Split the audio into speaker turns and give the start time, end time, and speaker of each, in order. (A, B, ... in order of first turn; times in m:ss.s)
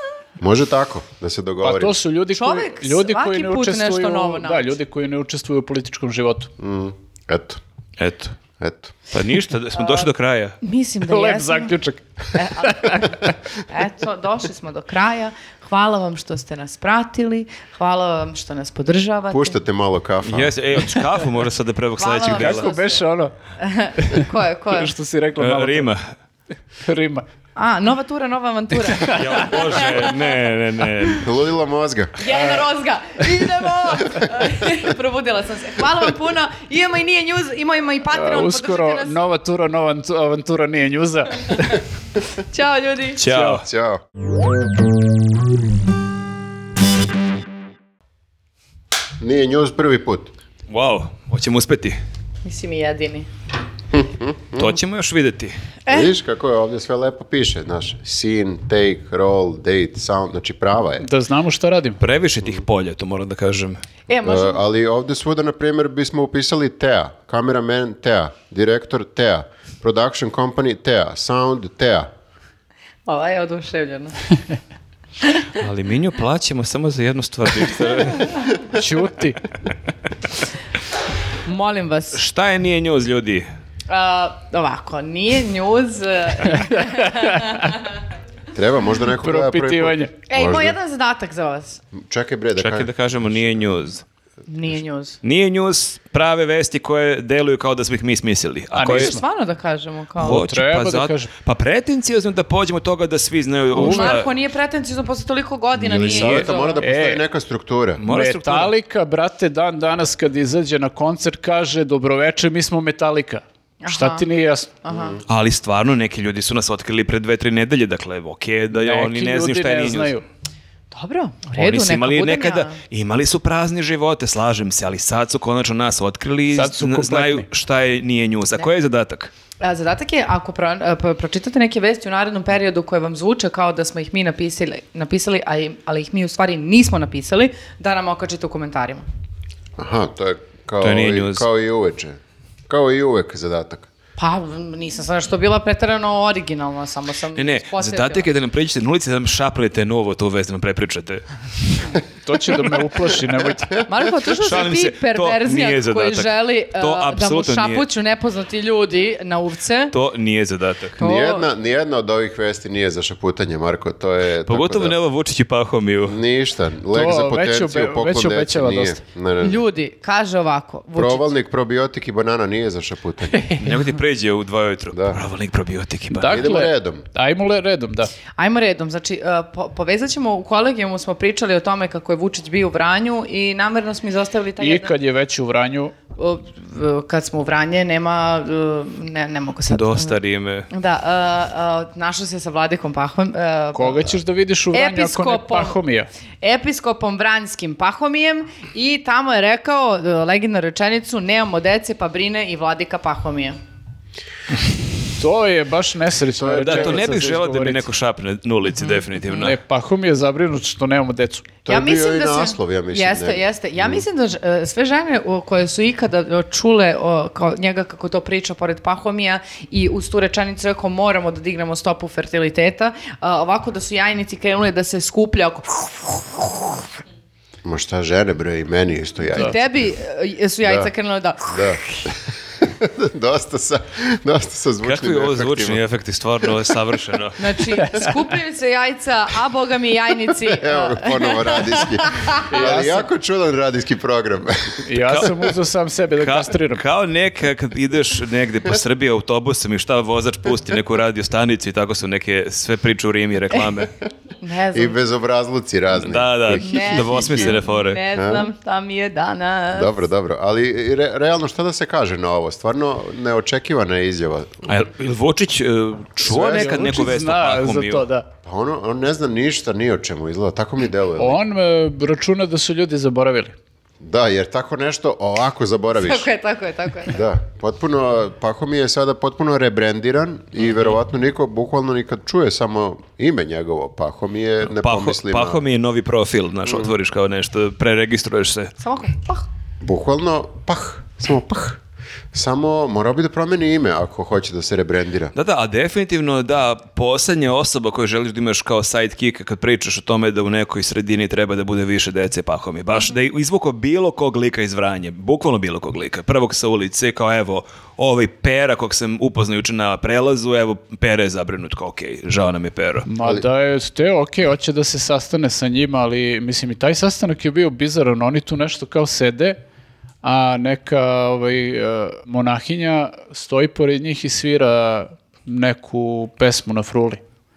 0:00.4-0:01.9 A
0:01.6-0:06.5 B
0:02.3-0:04.7 C
0:06.6-0:07.6 A
0:08.0-0:08.3 D
0:08.6-0:09.0 A
0:09.1-0:10.6 D
0:09.7-0:10.1 C
0:10.6-0:11.8 C
0:11.0-0:13.3 B
0:12.3-0:19.6 C
0:19.3-0:20.6 A
0:20.2-0:22.7 D
0:22.0-0:23.0 C
0:22.2-0:23.3 B
0:23.6-0:24.9 C
0:24.0-0:25.9 B
0:25.4-0:26.0 D
0:26.8-0:27.2 B
0:27.6-0:30.3 C
0:29.0-0:29.4 B
0:29.0-0:31.3 D
0:31.2-0:32.2 A
0:32.2-0:39.2 C
0:32.3-0:32.6 B
0:38.1-0:41.8 B
0:42.4-0:43.2 C
0:43.2-0:43.6 D
0:43.3-0:43.6 B
0:43.5-0:44.0 A
0:49.2-0:50.3 A
0:50.7-0:52.0 D
0:52.4-0:53.3 C
0:53.9-0:54.7 A
0:54.5-0:55.5 D
0:55.8-0:56.1 C
0:55.9-1:01.1 A
1:01.0-1:02.0 B
1:02.0-1:03.8 D
1:04.1-1:04.6 C
1:04.2-1:12.1 A
1:13.0-1:14.1 C
1:15.6-1:18.3 D
1:18.7-1:19.4 B
1:21.4-1:22.2 C
1:22.1-1:23.4 D
1:23.9-1:27.8 C
1:26.5-1:27.6 B
1:28.5-1:30.8 A
1:29.2-1:30.1 B
1:30.3-1:31.8 C
1:31.9-1:32.9 A
1:32.6-1:34.0 D
1:34.5-1:35.2 C
1:35.2-1:39.2 D
1:38.7-1:39.2 B
1:38.8-1:40.4 C
1:40.2-1:44.3 D
1:40.2-1:41.3 B
1:43.7-1:44.2 B
1:43.7-1:46.8 C
1:45.8-1:48.0 A
1:46.0-1:46.4 D
1:46.8-1:47.2 B
1:48.0-1:48.7 D
1:48.1-1:54.8 B
1:53.8-1:54.2 C
1:54.8-1:55.2 C
1:54.9-1:55.2 A
1:55.3-2:00.1 D
1:58.7-2:00.2 B
2:00.9-2:02.8 C
2:01.5-2:09.3 D
2:06.5-2:07.5 B
2:09.6-2:19.0 C
2:19.8-2:23.9 A
2:20.8-2:21.4 D
2:24.2-2:28.3 C
2:27.4-2:31.9 D
2:32.2-2:33.8 B
2:33.8-2:39.9 C
2:34.3-2:37.8 D
2:39.9-2:41.0 D
2:41.0-2:45.0 A
2:41.0-2:41.5 C
2:44.5-2:46.2 D
2:46.0-2:49.6 A
2:46.9-2:49.0 B
2:49.4-2:51.2 C
2:50.9-2:53.5 A
2:53.6-2:56.5 D
2:54.9-2:55.2 A
2:56.1-2:58.1 B
2:56.2-2:57.0 A
2:58.4-3:04.9 C
3:04.6-3:05.9 B
3:06.2-3:10.2 C
3:09.7-3:10.7 D
3:10.7-3:14.1 C
3:13.7-3:16.1 B
3:14.7-3:15.8 C
3:16.4-3:23.6 C
3:25.2-3:27.9 B
3:26.4-3:27.1 A
3:26.6-3:29.6 D
3:29.3-3:31.5 B
3:31.6-3:34.0 A
3:31.7-3:46.8 C
3:47.6-3:49.8 A
3:49.3-3:51.7 C
3:50.6-3:50.9 A
3:51.5-3:55.8 A
3:54.8-3:57.5 D
3:57.4-4:02.5 C
3:57.7-3:58.1 B
4:00.4-4:05.1 A
4:02.5-4:03.1 B
4:04.8-4:06.8 B
4:05.0-4:05.4 D
4:06.2-4:13.9 D
4:14.4-4:15.0 C
4:14.7-4:17.6 A
4:16.0-4:18.0 D
4:16.6-4:20.0 C
4:18.1-4:18.5 A
4:19.7-4:24.7 A
4:24.6-4:28.0 D
4:26.3-4:28.3 B
4:26.3-4:26.8 A
4:28.4-4:31.4 A
4:31.2-4:33.5 B
4:34.0-4:36.2 A
4:35.9-4:37.2 C
4:37.1-4:45.6 A
4:44.8-4:48.7 D
4:46.6-4:46.9 A
4:48.8-4:49.5 C
4:49.8-4:51.8 A
4:52.3-4:55.3 A
4:55.3-5:13.1 D
5:13.0-5:19.6 B
5:20.2-5:27.2 B